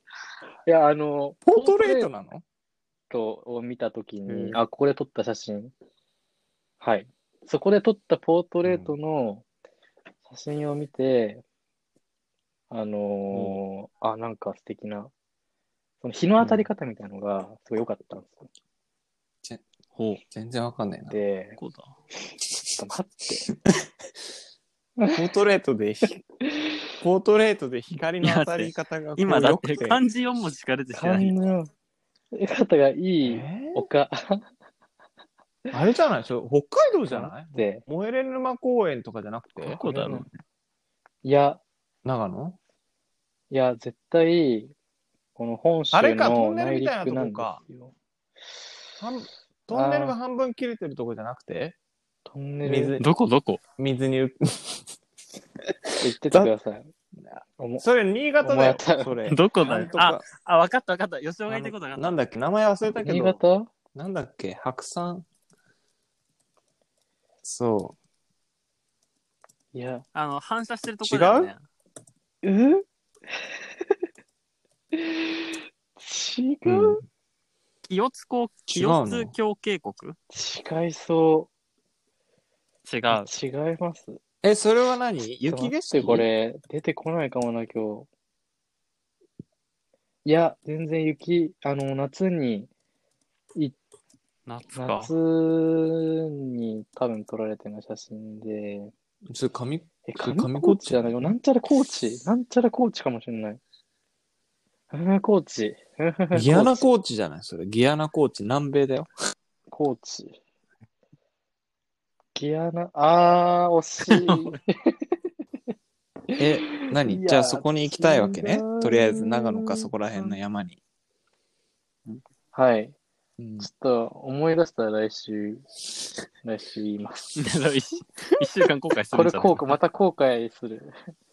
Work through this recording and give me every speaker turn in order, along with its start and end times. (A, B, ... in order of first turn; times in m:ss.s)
0:00.6-0:02.1 A
0:01.4-0:02.4 B
0:03.1-0:05.7 A
0:04.2-0:04.6 B
0:06.8-0:09.4 A
0:08.6-0:08.9 B
0:10.2-0:11.4 A
0:12.7-0:15.1 A
0:13.3-0:13.6 C
0:16.0-0:18.5 A
0:16.4-0:16.6 B
0:19.9-0:20.2 C
0:20.3-0:21.2 B
0:21.1-0:21.6 A
0:21.6-0:21.9 C
0:22.8-0:23.4 A
0:25.1-0:26.2 B
0:26.4-0:26.8 A
0:27.0-0:30.0 B
0:28.2-0:31.4 C
0:30.9-0:31.7 A
0:32.3-0:34.5 A
0:33.2-0:33.9 B
0:35.7-0:39.8 B
0:37.1-0:37.8 A
0:39.6-0:40.2 A
0:39.6-0:40.3 C
0:41.2-0:41.6 A
0:42.0-0:42.6 B
0:43.5-0:44.7 A
0:45.4-0:47.9 A
0:45.9-0:47.6 B
0:49.0-0:51.8 B
0:49.7-0:50.1 A
0:52.3-0:53.0 A
0:52.6-0:53.0 B
0:53.0-0:53.6 C
0:53.8-0:54.9 B
0:55.7-0:56.5 B
0:56.0-0:56.9 A
0:57.6-0:57.8 A
0:57.8-1:00.2 B
0:58.4-0:59.2 A
0:59.3-1:02.2 C
1:01.5-1:03.4 B
1:03.0-1:03.7 A
1:03.9-1:05.2 B
1:07.4-1:08.0 B
1:09.7-1:10.0 A
1:10.1-1:11.6 C
1:11.0-1:11.5 B
1:12.4-1:13.9 A
1:14.9-1:17.0 A
1:16.6-1:17.0 B
1:17.9-1:20.2 C
1:18.7-1:19.3 B
1:20.3-1:21.5 A
1:22.8-1:23.3 C
1:23.1-1:24.2 A
1:24.4-1:26.3 B
1:25.5-1:28.1 A
1:30.2-1:32.7 A
1:34.4-1:35.1 C
1:34.8-1:38.9 A
1:39.3-1:41.3 B
1:40.0-1:43.6 A
1:44.9-1:46.8 A
1:46.3-1:49.1 B
1:49.7-1:50.4 A
1:52.3-1:55.0 A
1:54.1-1:54.6 C
1:56.3-2:00.2 A
1:56.4-2:00.8 B
2:02.5-2:03.0 A
2:03.4-2:03.7 B
2:03.6-2:05.7 A
2:06.4-2:07.5 A
2:07.4-2:09.8 C
2:09.1-2:10.9 A